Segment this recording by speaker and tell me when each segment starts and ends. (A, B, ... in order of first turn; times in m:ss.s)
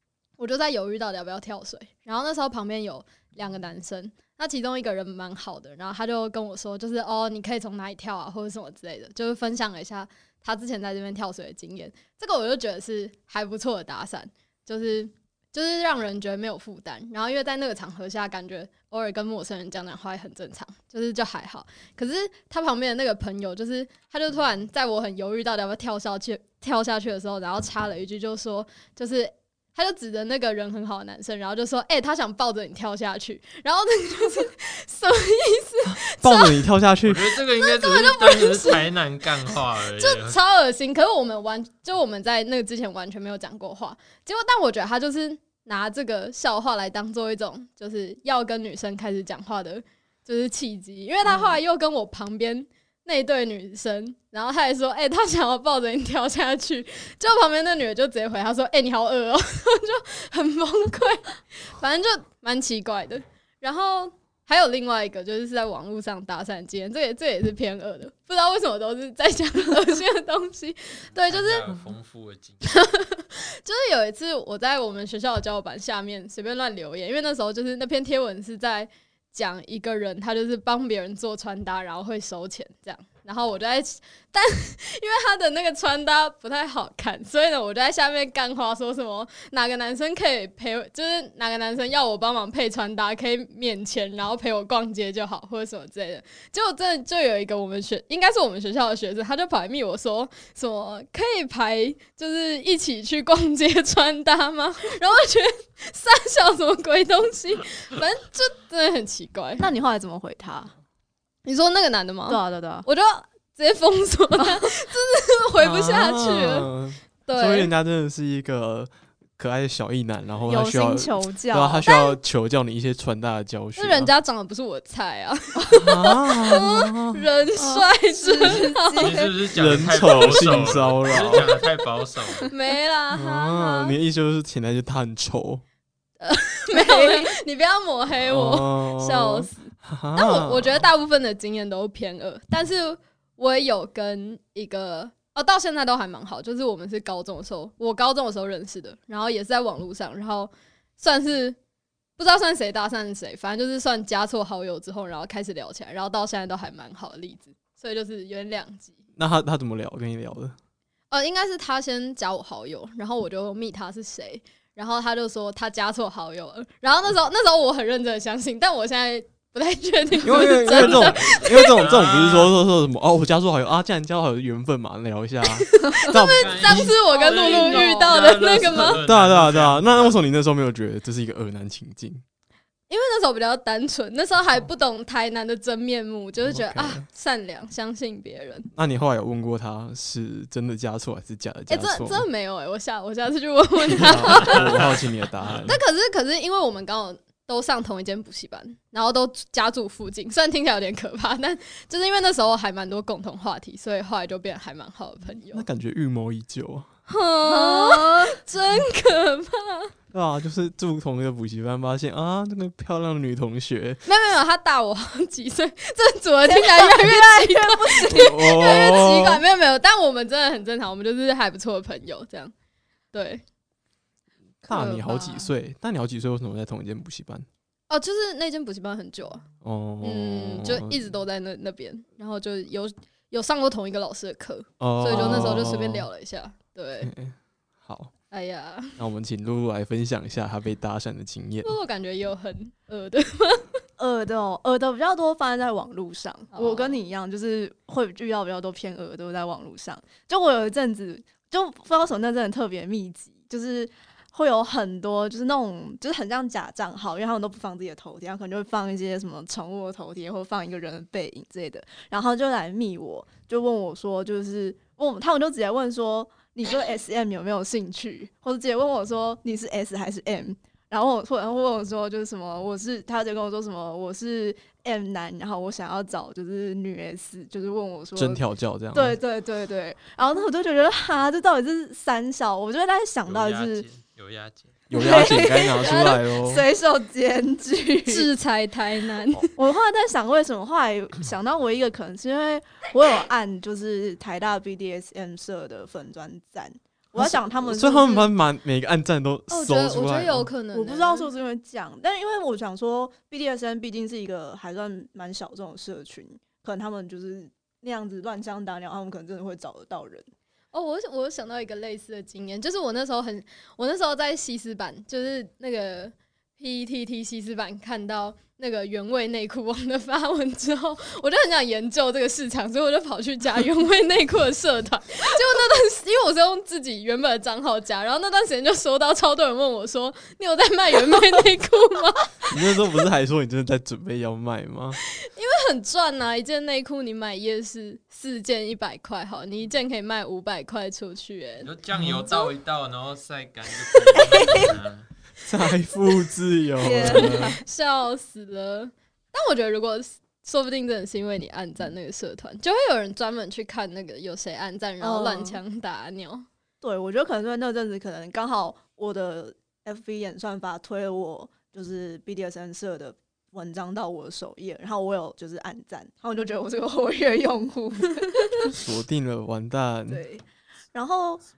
0:00.4-0:36.6 A
0:35.8-0:37.3 B
0:37.0-0:40.4 C
0:37.5-0:38.9 A
0:39.9-1:11.7 A
0:51.3-0:51.5 D
1:11.3-1:12.7 C
1:12.7-1:49.7 A
1:49.6-1:50.7 D
1:51.4-1:56.7 A
1:52.3-1:52.8 D
1:54.4-1:54.7 D
1:55.6-2:04.1 B
1:57.2-1:57.7 A
2:00.5-2:01.9 D
2:01.8-2:02.2 A
2:03.8-2:09.2 A
2:05.7-2:07.2 B
2:07.6-2:09.3 D
2:09.0-2:12.5 C
2:09.5-2:11.5 B
2:12.5-2:14.0 A
2:13.1-2:15.6 B
2:16.2-2:31.6 A
2:16.7-2:17.3 D
2:18.2-2:20.8 B
2:32.2-2:39.0 A
2:39.2-2:40.5 B
2:41.1-2:51.7 A
2:50.2-2:56.9 B
2:51.3-2:52.6 C
2:55.7-2:59.0 A
2:56.4-3:00.2 C
2:57.1-2:58.2 D
2:58.6-3:02.2 B
3:02.9-3:08.7 A
3:06.5-3:07.0 B
3:08.7-3:12.2 B
3:11.7-3:15.0 A
3:13.9-3:15.8 B
3:14.4-3:15.8 C
3:15.6-3:25.6 A
3:25.5-3:26.9 B
3:27.1-3:29.9 A
3:27.5-3:28.4 D
3:30.1-3:34.0 B
3:34.0-3:42.5 A
3:36.4-3:38.5 D
3:38.1-3:39.4 B
3:43.1-3:43.4 A
3:44.6-3:47.4 B
3:44.7-3:45.5 A
3:47.9-3:49.4 A
3:49.6-3:51.0 B
3:50.0-3:57.1 A
3:54.8-3:56.1 B
3:57.0-3:58.1 B
3:58.3-3:59.0 A
3:59.0-4:01.8 B
4:01.6-4:03.8 A
4:04.0-4:38.4 D
4:06.5-4:07.0 A
4:38.2-4:39.2 B
4:38.9-4:43.8 D
4:43.2-4:44.8 C
4:44.9-4:46.6 B
4:44.9-4:48.3 D
4:45.1-4:46.0 A
4:48.1-4:49.5 A
4:49.6-4:58.3 D
4:57.2-5:00.5 B
4:59.5-5:01.3 A
5:00.7-5:10.3 D
5:10.7-5:32.3 A
5:32.5-5:35.0 B
5:35.2-5:41.7 A
5:41.6-5:45.1 C
5:41.9-5:42.3 B
5:44.1-5:44.7 D
5:45.4-5:47.6 B
5:46.8-5:47.6 D
5:47.0-5:56.4 A
5:55.0-5:55.6 D
5:56.8-6:08.6 D
6:08.6-6:10.2 B
6:10.1-6:11.4 D